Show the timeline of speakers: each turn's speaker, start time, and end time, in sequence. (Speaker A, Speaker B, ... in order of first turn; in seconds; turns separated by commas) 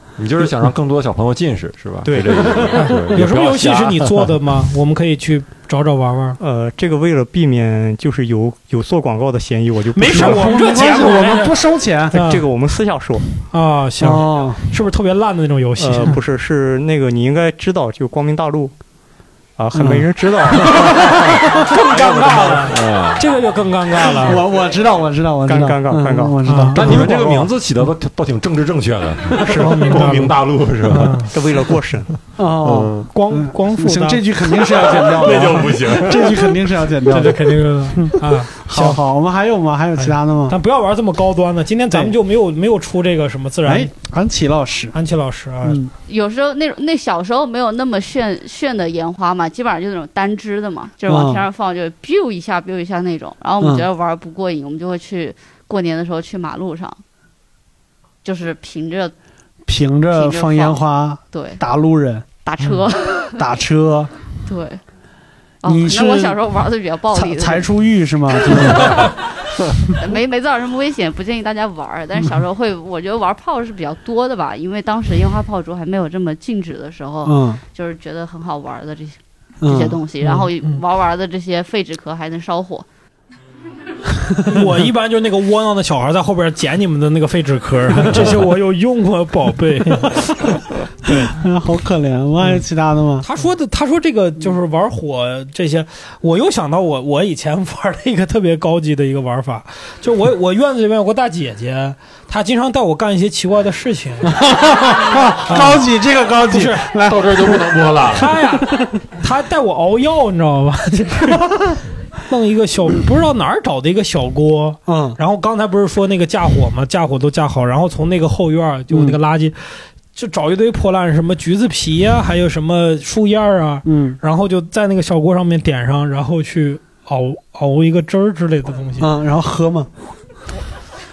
Speaker A: 0.2-4.3, Speaker B: 2.0-2.6, Speaker C: 2.7-6.4, Speaker B: 6.4-10.5, Speaker C: 9.9-11.6, Speaker D: 10.0-12.2, Speaker C: 12.1-12.4, Speaker B: 12.1-13.2, Speaker C: 13.5-16.1, Speaker D: 14.0-14.6, Speaker B: 15.8-18.7, Speaker B: 19.6-20.9, Speaker D: 19.7-20.1, Speaker C: 21.6-24.4, Speaker A: 21.9-23.3, Speaker D: 24.2-27.5, Speaker B: 25.5-26.4, Speaker C: 26.5-27.1, Speaker A: 26.7-31.3, Speaker C: 29.4-31.3, Speaker B: 31.3-32.1, Speaker D: 32.4-40.6, Speaker A: 32.6-33.1, Speaker C: 33.1-35.6, Speaker A: 35.0-36.6, Speaker C: 37.1-39.0, Speaker C: 40.0-43.9, Speaker D: 43.6-45.0, Speaker C: 44.9-45.8, Speaker D: 45.6-45.9, Speaker E: 46.1-57.0, Speaker D: 51.1-51.4, Speaker D: 53.6-53.9, Speaker E: 58.2-59.1, Speaker D: 59.7-62.3, Speaker E: 60.1-61.6, Speaker E: 62.4-63.5, Speaker D: 63.4-64.1, Speaker E: 64.5-64.8, Speaker E: 65.6-67.7, Speaker D: 65.7-66.4, Speaker D: 67.1-69.1, Speaker E: 68.4-69.1, Speaker E: 69.9-82.8, Speaker D: 77.3-77.6, Speaker D: 79.6-80.0, Speaker C: 80.2-80.8, Speaker C: 84.4-91.4, Speaker D: 91.3-93.3, Speaker C: 93.2-104.4, Speaker D: 104.2-107.7, Speaker C: 105.1-105.9, Speaker C: 106.5-106.9, Speaker A: 107.0-108.3, Speaker C: 108.1-111.6, Speaker C: 112.3-119.6, Speaker D: 114.9-115.2, Speaker D: 118.9-119.2, Speaker C: 120.2-129.1, Speaker D: 123.8-124.2, Speaker D: 129.0-129.9